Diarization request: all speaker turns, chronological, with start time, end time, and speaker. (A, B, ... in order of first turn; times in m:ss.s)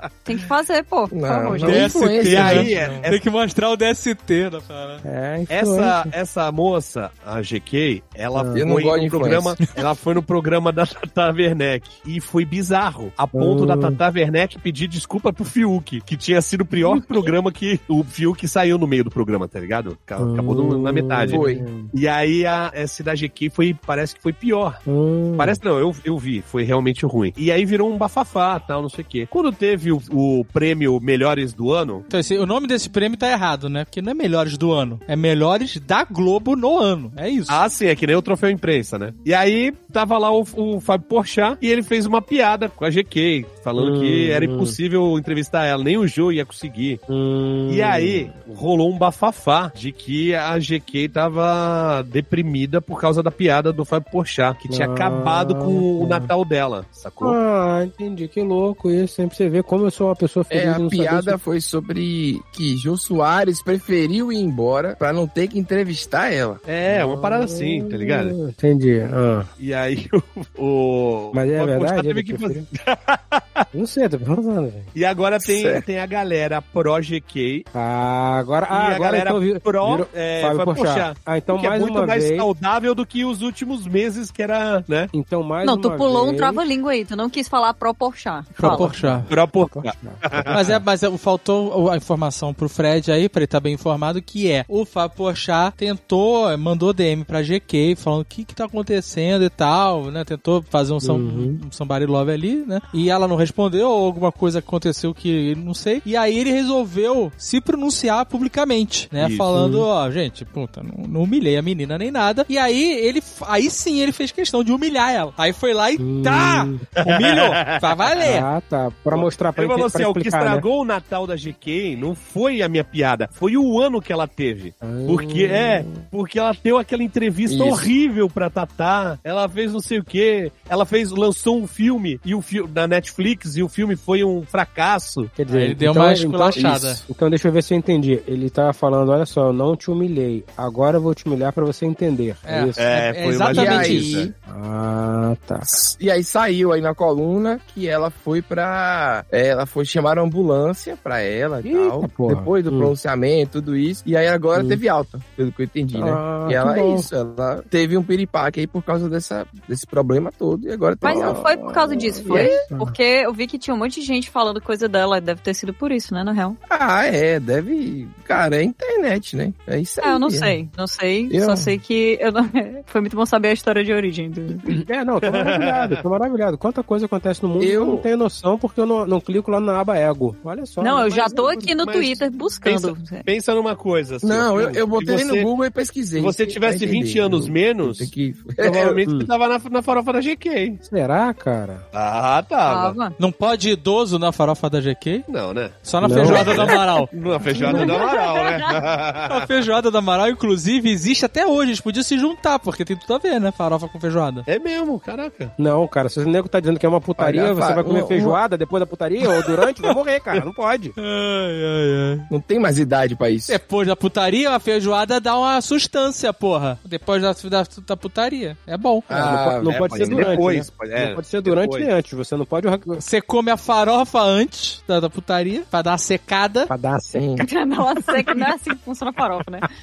0:00.2-0:02.5 A
0:01.1-0:02.7 B
0:01.6-0:05.0 C
0:02.3-0:03.2 D
0:02.5-0:03.0 E
0:05.0-0:06.1 E
0:05.5-0:24.8 D
0:08.4-0:08.8 E
0:08.6-0:09.6 B
0:13.3-0:14.0 E
0:20.2-0:21.9 E
0:21.3-0:21.7 B
0:24.9-0:25.6 E
0:25.4-0:32.0 D
0:32.1-0:37.6 C
0:37.5-0:47.0 D
0:43.8-0:44.8 E
0:47.1-0:48.4 E
0:47.7-0:57.4 D
0:54.7-0:56.3 E
0:57.2-1:01.4 E
1:00.5-1:06.6 B
1:06.6-1:08.4 D
1:06.9-1:09.5 E
1:09.6-1:13.6 D
1:11.3-1:12.7 E
1:13.7-1:14.9 E
1:15.0-1:17.7 D
1:15.4-1:15.8 B
1:17.7-1:22.5 E
1:18.7-1:25.1 D
1:25.1-1:26.7 E
1:25.6-1:28.9 A
1:28.6-1:29.3 C
1:28.6-1:30.8 E
1:29.3-1:30.6 D
1:30.5-1:58.5 C
1:41.0-1:41.6 E
1:49.2-1:49.5 D
1:49.5-1:49.9 E
1:56.0-1:56.9 E
1:57.1-1:57.8 D
1:58.2-2:00.7 E
1:59.1-2:15.3 D
2:04.8-2:06.1 E
2:07.5-2:07.8 B
2:15.3-2:23.0 E
2:15.5-2:17.0 C
2:16.6-2:16.9 B
2:22.4-2:24.3 C
2:22.8-2:24.3 D
2:23.5-2:24.3 B
2:23.5-2:25.8 E
2:25.7-2:42.6 B
2:31.6-2:32.9 E
2:34.6-2:34.8 E
2:35.9-2:37.1 E
2:41.0-2:46.6 A
2:42.3-2:43.0 E
2:46.7-2:50.6 B
2:50.0-2:54.8 A
2:51.3-2:51.7 B
2:54.6-3:01.8 E
2:55.3-2:56.0 D
2:57.6-2:58.1 B
3:00.8-3:03.3 A
3:01.8-3:05.5 D
3:04.2-3:09.0 B
3:06.2-3:10.8 D
3:08.7-3:09.3 E
3:10.8-3:11.8 E
3:11.9-3:13.0 D
3:12.7-3:13.2 A
3:13.2-3:15.3 C
3:15.3-3:19.4 D
3:15.8-3:17.1 C
3:16.0-3:16.6 E
3:16.2-3:16.8 A
3:17.4-3:18.8 A
3:17.6-3:18.0 E
3:19.3-3:24.4 C
3:24.5-3:25.5 D
3:25.6-3:30.9 E
3:27.2-3:28.4 B
3:31.0-3:32.3 C
3:32.3-3:33.6 B
3:33.5-3:39.3 C
3:39.1-3:40.4 B
3:39.1-3:43.0 E
3:39.6-3:41.9 D
3:43.0-3:46.7 C
3:46.7-3:47.4 E
3:47.1-3:47.4 B
3:47.4-3:49.7 A